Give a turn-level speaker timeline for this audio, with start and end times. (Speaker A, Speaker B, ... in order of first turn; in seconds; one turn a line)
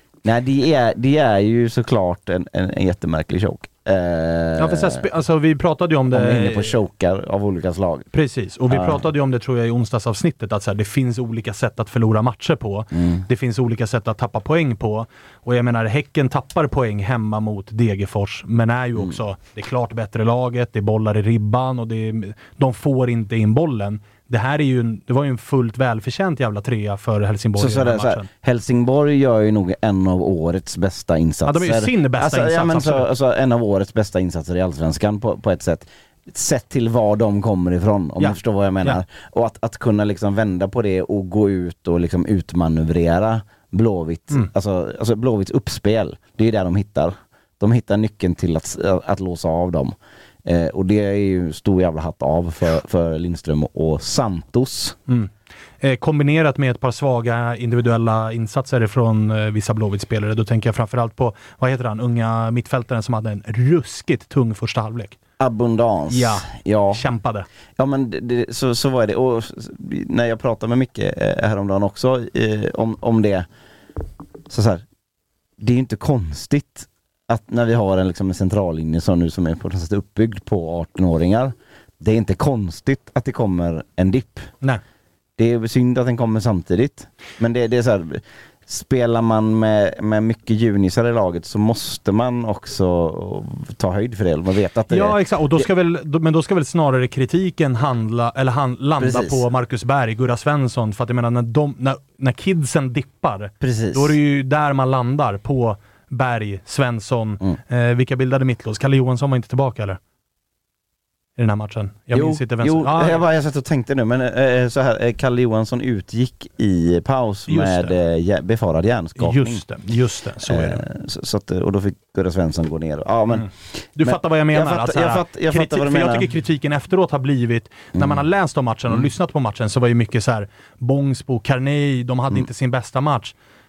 Speaker A: 0.2-5.0
Speaker B: 4.6-6.8
Speaker A: 6.1-8.1
Speaker B: 8.1-28.3
Speaker A: 8.7-9.1
Speaker A: 12.9-13.3
Speaker A: 27.6-49.9
Speaker B: 31.4-33.1
Speaker B: 38.2-39.0
Speaker A: 50.5-55.0
Speaker B: 55.1-65.2
Speaker A: 65.4-67.0
Speaker B: 66.1-67.5
Speaker A: 67.8-73.5
Speaker A: 74.5-74.8
Speaker A: 75.6-84.5
Speaker A: 85.4-95.7
Speaker B: 94.9-110.0
Speaker A: 99.0-99.4
Speaker A: 103.6-104.2
Speaker B: 111.4-113.2
Speaker A: 112.1-119.6
Speaker B: 117.5-117.9
Speaker B: 119.2-120.8
Speaker A: 120.4-126.3
Speaker B: 123.3-133.3
Speaker A: 128.0-128.2